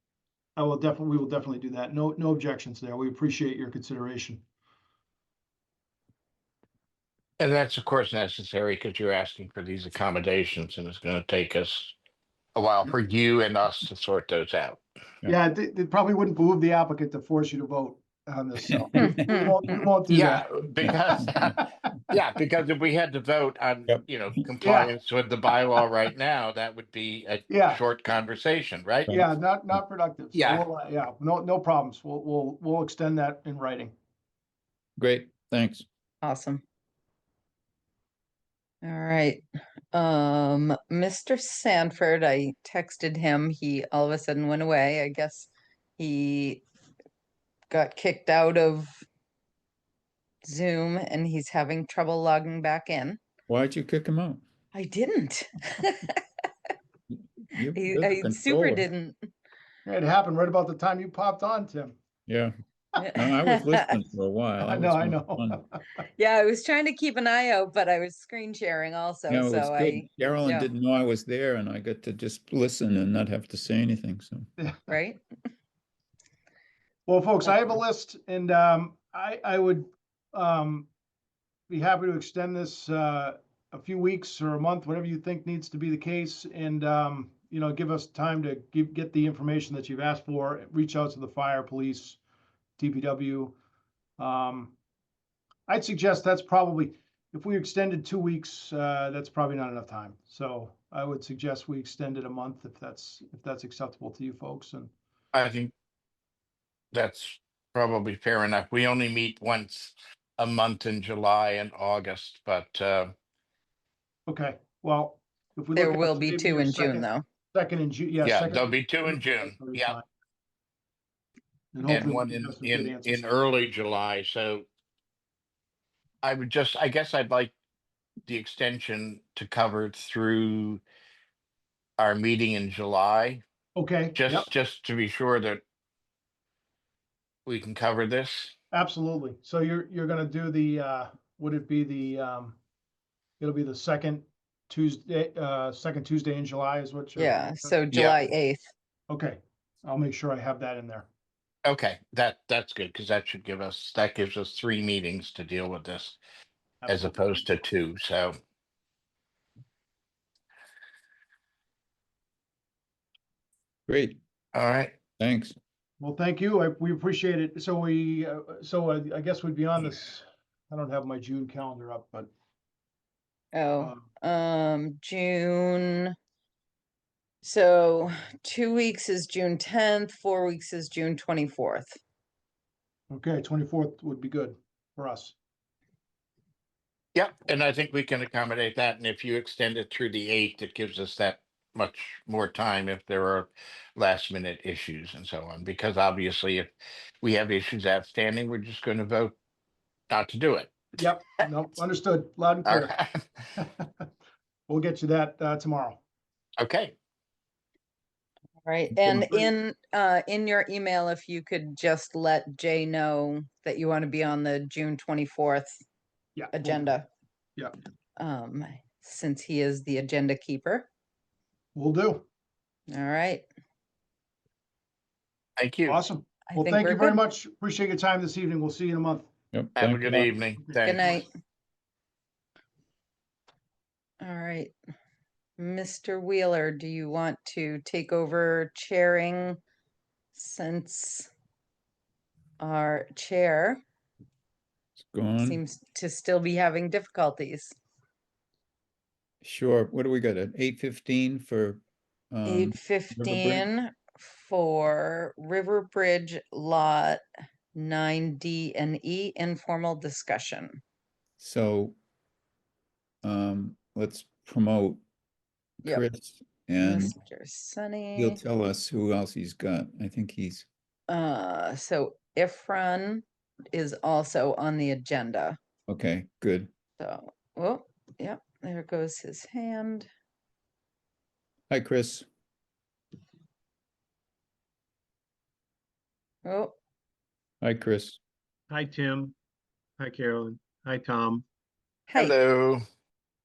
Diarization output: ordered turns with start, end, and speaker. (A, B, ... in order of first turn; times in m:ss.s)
0:00.6-0:04.4 A
0:07.4-0:12.0 B
0:12.5-0:14.8 B
0:15.2-0:20.5 A
0:18.9-0:19.4 C
0:19.0-0:19.6 D
0:20.1-0:29.1 B
0:20.8-0:21.3 C
0:21.1-0:21.6 A
0:24.6-0:24.9 A
0:27.5-0:27.8 A
0:29.1-0:33.9 A
0:30.3-0:30.6 B
0:35.0-0:35.8 C
0:36.2-0:36.6 D
0:38.8-0:46.6 D
0:47.7-0:48.9 D
0:50.4-0:53.2 D
0:53.5-0:54.4 C
0:54.7-0:56.2 D
0:57.1-0:58.9 C
0:57.7-0:59.2 D
0:59.8-1:02.0 A
1:02.3-1:02.5 C
1:03.0-1:03.9 D
1:03.1-1:05.6 C
1:04.6-1:05.8 A
1:06.2-1:10.7 D
1:09.3-1:14.5 C
1:14.6-1:14.9 A
1:14.9-1:15.2 D
1:17.0-1:20.9 A
1:21.7-1:32.2 A
1:32.8-1:33.6 A
1:34.2-1:34.7 A
1:35.7-1:44.9 A
1:45.3-1:45.7 B
1:46.9-1:53.1 B
1:54.3-2:00.0 A
1:55.8-1:57.2 D
1:58.2-1:59.9 B
2:01.7-2:03.3 A
2:01.8-2:04.6 B
2:06.2-2:07.5 B
2:08.2-2:10.8 B
2:12.0-2:13.4 B
2:13.8-2:14.5 A
2:14.1-2:15.6 B
2:17.4-2:18.5 B
2:18.7-2:22.6 A
2:23.4-2:27.8 A
2:27.2-2:28.6 D
2:27.9-2:28.2 B
2:29.1-2:31.1 A
2:31.6-2:36.2 B
2:36.8-2:37.5 A
2:36.9-2:38.3 B
2:43.9-2:44.2 C
2:44.5-2:44.9 B
2:45.2-2:45.6 C
2:46.0-2:52.3 A
2:53.5-2:56.1 D
2:53.8-2:54.0 A
2:57.4-3:02.0 D
3:03.1-3:05.4 A
3:07.1-3:16.7 B
3:17.2-3:19.3 B
3:20.1-3:20.7 B
3:21.0-3:22.9 A
3:22.6-3:23.2 B
3:23.6-3:24.1 A
3:24.7-3:26.0 A
3:26.6-3:26.9 B
3:28.6-3:35.7 D
3:29.0-3:29.5 A
3:36.4-3:36.9 A
3:36.5-3:37.0 D
3:38.2-3:40.9 D
3:41.7-3:42.2 A
3:42.9-3:43.4 D
3:45.6-3:46.0 B
3:45.9-3:49.3 A
3:46.5-3:47.2 D
3:49.5-3:50.3 C
3:49.8-3:51.2 B
3:50.8-3:51.3 D
3:54.2-3:54.7 D
3:55.6-3:59.6 D
4:00.3-4:01.3 D
4:02.6-4:03.8 D
4:05.0-4:05.6 C
4:05.4-4:07.7 D
4:09.4-4:13.7 C
4:12.4-4:17.2 D
4:17.7-4:20.8 D
4:21.4-4:22.0 C
4:23.2-4:25.0 C
4:25.8-4:27.1 C
4:26.8-4:28.4 D
4:28.2-4:30.7 C
4:31.1-4:35.6 D
4:35.9-4:36.7 C
4:37.0-4:40.1 D
4:41.7-4:42.2 C
4:46.4-4:46.8 D
4:47.6-4:48.2 C
4:48.7-4:49.3 E
4:50.0-4:51.4 E
4:52.1-4:52.4 D
4:52.1-4:52.8 B